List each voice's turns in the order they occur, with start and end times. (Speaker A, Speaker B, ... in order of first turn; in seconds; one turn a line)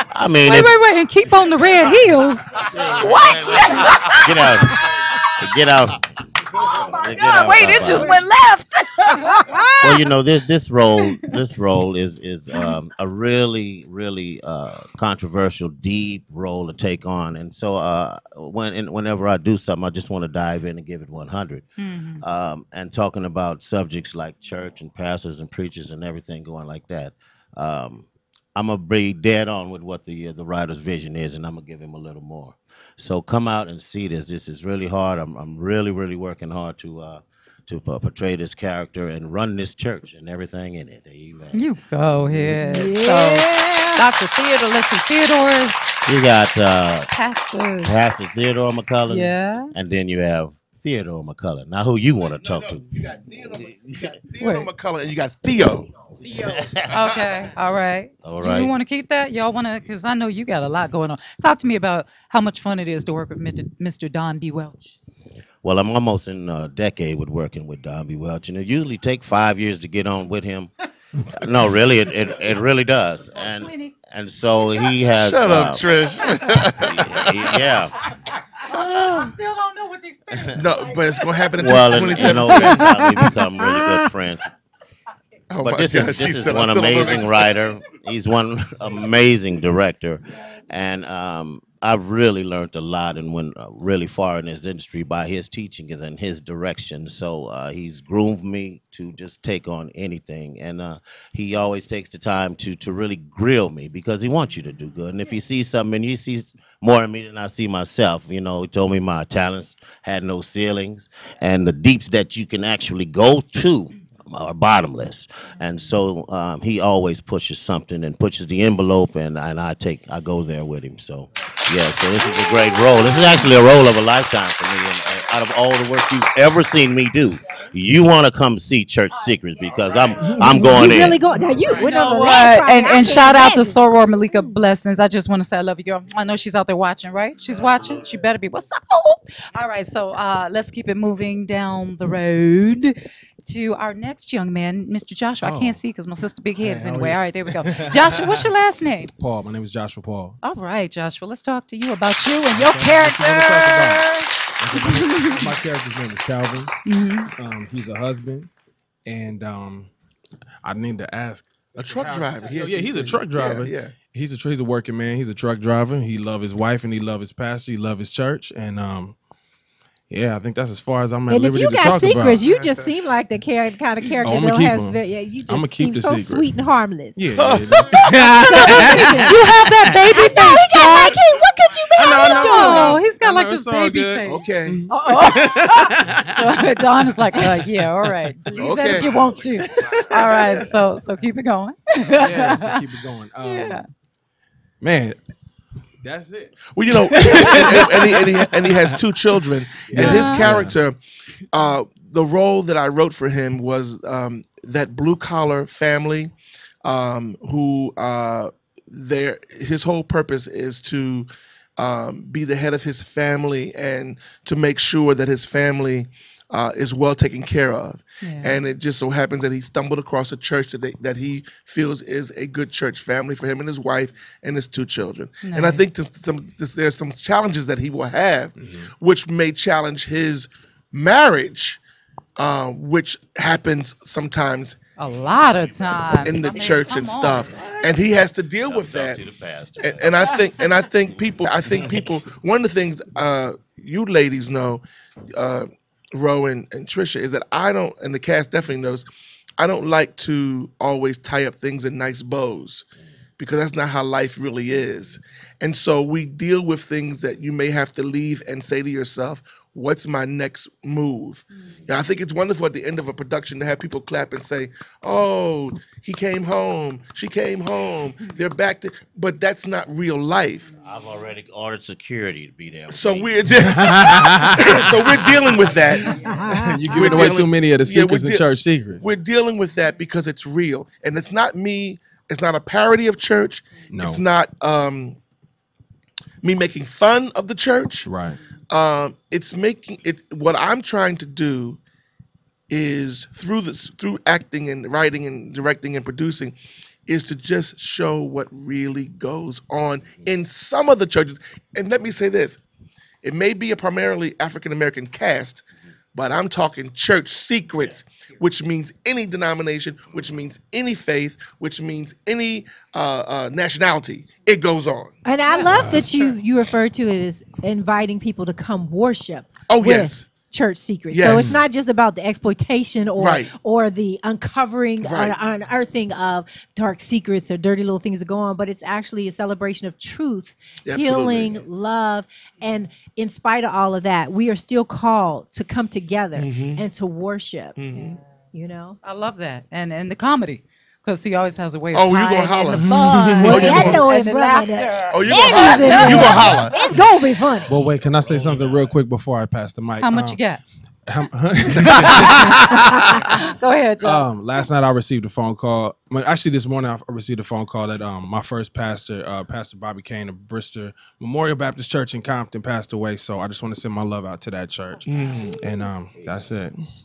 Speaker A: 0.1-0.7
Speaker B: 0.5-5.2
Speaker A: 3.1-4.8
Speaker A: 5.4-6.0
Speaker A: 6.9-8.1
Speaker B: 7.0-9.4
Speaker C: 7.6-8.2
Speaker C: 9.1-10.1
Speaker A: 9.8-21.7
Speaker B: 11.1-11.3
Speaker B: 21.8-22.2
Speaker A: 22.2-42.6
Speaker B: 41.5-46.1
Speaker C: 42.5-44.0
Speaker A: 46.1-47.1
Speaker B: 47.1-47.9
Speaker A: 47.8-53.0
Speaker B: 49.1-49.7
Speaker D: 53.0-55.9
Speaker B: 54.4-54.7
Speaker A: 56.3-57.5
Speaker B: 56.9-64.9
Speaker A: 58.2-58.7
Speaker A: 65.6-70.7
Speaker A: 71.4-75.8
Speaker B: 73.4-74.0
Speaker D: 75.2-77.5
Speaker A: 76.8-78.0
Speaker B: 78.7-83.4
Speaker D: 78.8-79.3
Speaker D: 80.6-83.0
Speaker A: 81.6-84.5
Speaker C: 83.7-84.0
Speaker D: 85.5-87.5
Speaker A: 85.6-131.2
Speaker B: 122.4-123.2
Speaker C: 130.3-134.5
Speaker B: 130.8-131.1
Speaker B: 131.7-149.1
Speaker E: 145.4-145.8
Speaker E: 146.6-148.5
Speaker E: 149.2-150.4
Speaker B: 150.4-152.5
Speaker C: 152.2-154.0
Speaker E: 152.5-154.1
Speaker E: 154.6-156.8
Speaker B: 154.8-155.5
Speaker B: 156.9-157.3
Speaker E: 157.4-158.5
Speaker E: 159.1-159.9
Speaker E: 160.6-169.2
Speaker D: 161.8-164.0
Speaker E: 170.1-172.4
Speaker C: 171.3-177.2
Speaker D: 172.4-172.9
Speaker E: 174.2-176.5
Speaker E: 177.2-180.0
Speaker D: 177.3-178.1
Speaker C: 178.3-183.0
Speaker B: 178.7-181.2
Speaker E: 181.9-189.1
Speaker B: 182.1-192.8
Speaker D: 184.3-184.8
Speaker D: 188.6-189.1
Speaker E: 189.8-190.5
Speaker E: 192.2-193.8
Speaker B: 193.4-193.8
Speaker E: 194.8-195.2
Speaker E: 196.0-199.0
Speaker D: 196.7-201.0
Speaker E: 199.9-200.8
Speaker B: 200.0-200.4
Speaker D: 201.5-206.3
Speaker D: 206.8-231.8
Speaker B: 218.2-218.6
Speaker B: 225.4-225.9
Speaker E: 228.6-228.9
Speaker D: 232.4-234.8
Speaker B: 235.0-237.9
Speaker D: 236.2-239.2
Speaker A: 238.7-240.2
Speaker D: 239.8-244.8
Speaker A: 241.4-242.0
Speaker D: 245.3-249.1
Speaker D: 249.6-252.9
Speaker D: 253.4-270.7
Speaker A: 270.8-273.4
Speaker D: 272.9-276.2
Speaker E: 273.6-275.3
Speaker C: 276.2-277.2
Speaker E: 276.5-279.1
Speaker D: 276.9-285.2
Speaker E: 283.9-284.2
Speaker D: 286.4-288.1
Speaker E: 288.1-288.4
Speaker D: 288.7-291.8
Speaker D: 292.7-296.6
Speaker D: 297.1-302.6
Speaker D: 303.2-315.2
Speaker C: 315.2-337.8
Speaker B: 315.5-316.4
Speaker E: 315.7-316.1
Speaker D: 319.7-320.3
Speaker D: 321.1-321.6
Speaker E: 321.2-321.6
Speaker D: 323.2-323.5
Speaker D: 325.0-325.4
Speaker D: 330.9-331.7
Speaker D: 336.4-336.9
Speaker D: 337.8-338.2
Speaker C: 338.5-339.0
Speaker B: 339.0-346.6
Speaker D: 341.9-342.9
Speaker E: 342.8-343.9
Speaker C: 343.2-347.8
Speaker D: 343.5-344.1
Speaker D: 345.1-346.9
Speaker E: 347.7-350.4
Speaker B: 350.0-350.6
Speaker E: 351.1-352.7
Speaker D: 351.6-352.6
Speaker B: 353.3-354.3
Speaker E: 354.0-365.1
Speaker D: 365.1-365.6
Speaker E: 365.6-366.8